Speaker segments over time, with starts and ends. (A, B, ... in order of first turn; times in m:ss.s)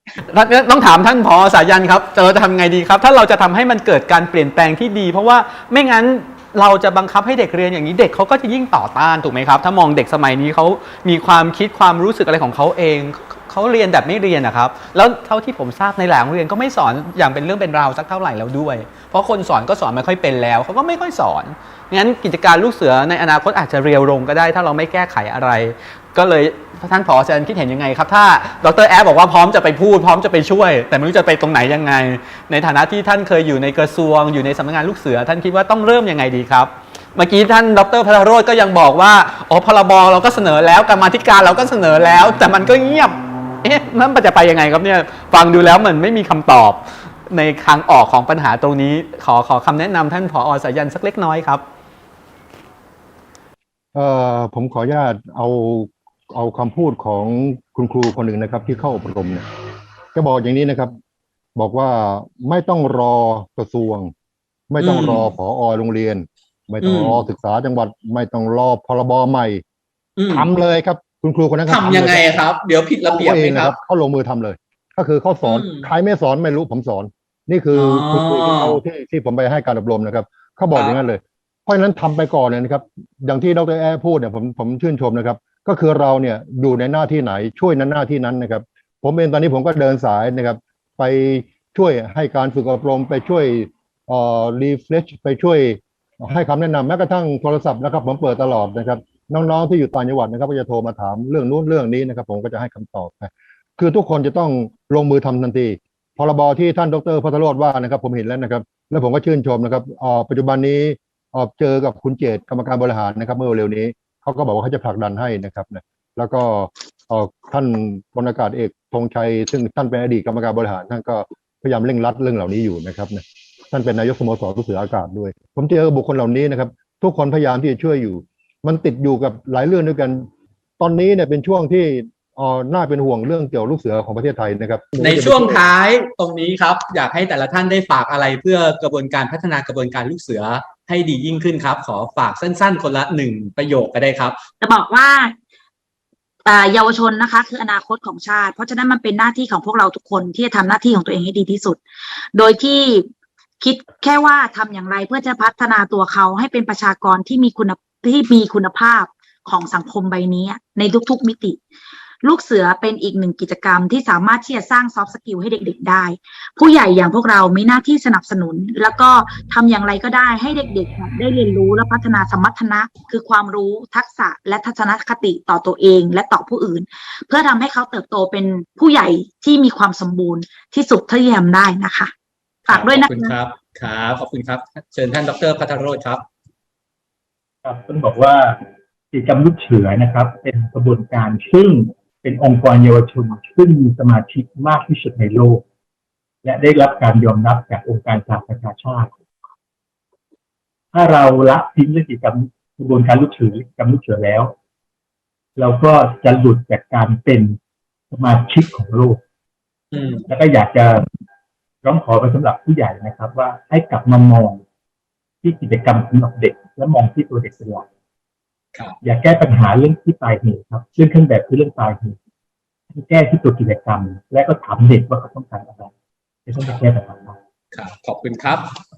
0:00.3-0:51.6 A
0:53.9-0:59.4 B
1:00.1-1:01.0 B
1:01.6-1:04.1 B
1:04.7-1:09.6 B
1:04.8-1:05.3 A
1:06.8-1:07.2 A
1:10.2-1:10.5 A
1:10.3-1:12.4 B
1:11.7-1:13.7 A
1:13.1-2:10.3 B
1:15.4-1:15.9 A
1:17.7-1:18.8 A
1:20.7-1:21.0 A
2:10.8-2:15.6 B
2:15.0-2:24.4 A
2:24.6-2:25.3 C
2:26.4-2:31.8 C
2:32.3-2:33.1 C
2:33.6-2:41.6 C
2:42.2-3:02.1 C
3:02.7-3:03.4 C
3:02.7-3:06.2 A
3:07.6-3:15.6 D
3:16.4-3:19.1 D
3:20.9-3:24.5 D
3:25.6-3:27.6 D
3:28.1-3:29.2 D
3:29.9-3:30.2 A
3:30.3-3:31.0 D
3:31.8-3:34.6 D
3:35.4-3:37.9 D
3:39.0-3:42.2 D
3:42.9-3:45.9 D
3:46.4-3:47.4 D
3:47.7-3:48.7 A